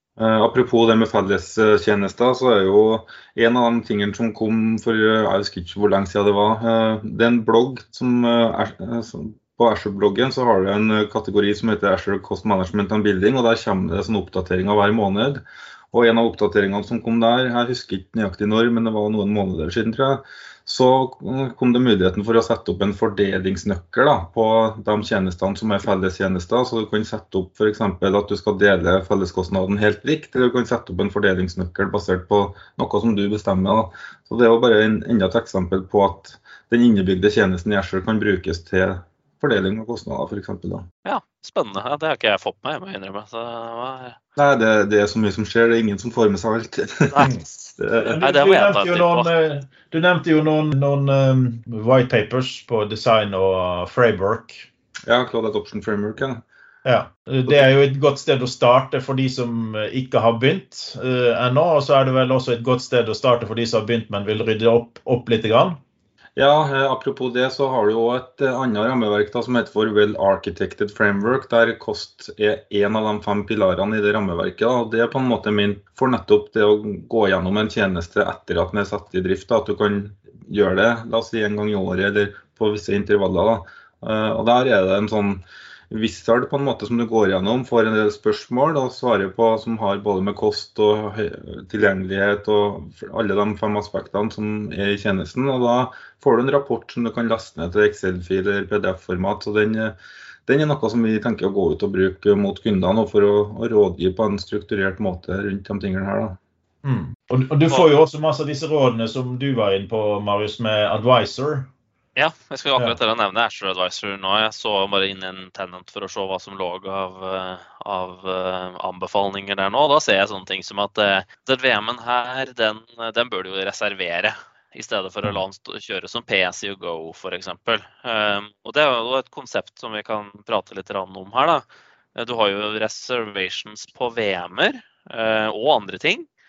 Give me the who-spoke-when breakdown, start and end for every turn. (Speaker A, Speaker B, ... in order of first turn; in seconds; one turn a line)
Speaker A: 0.2-40.9
Speaker B: 41.0-44.2
Speaker A: 44.4-48.2
Speaker B: 47.1-47.3
Speaker C: 48.0-54.7
Speaker B: 48.1-49.3
Speaker A: 55.1-56.4
Speaker C: 56.8-65.8
Speaker A: 66.3-99.9
Speaker A: 100.5-106.4
Speaker C: 106.8-111.7
Speaker B: 112.2-131.6
Speaker B: 132.1-136.3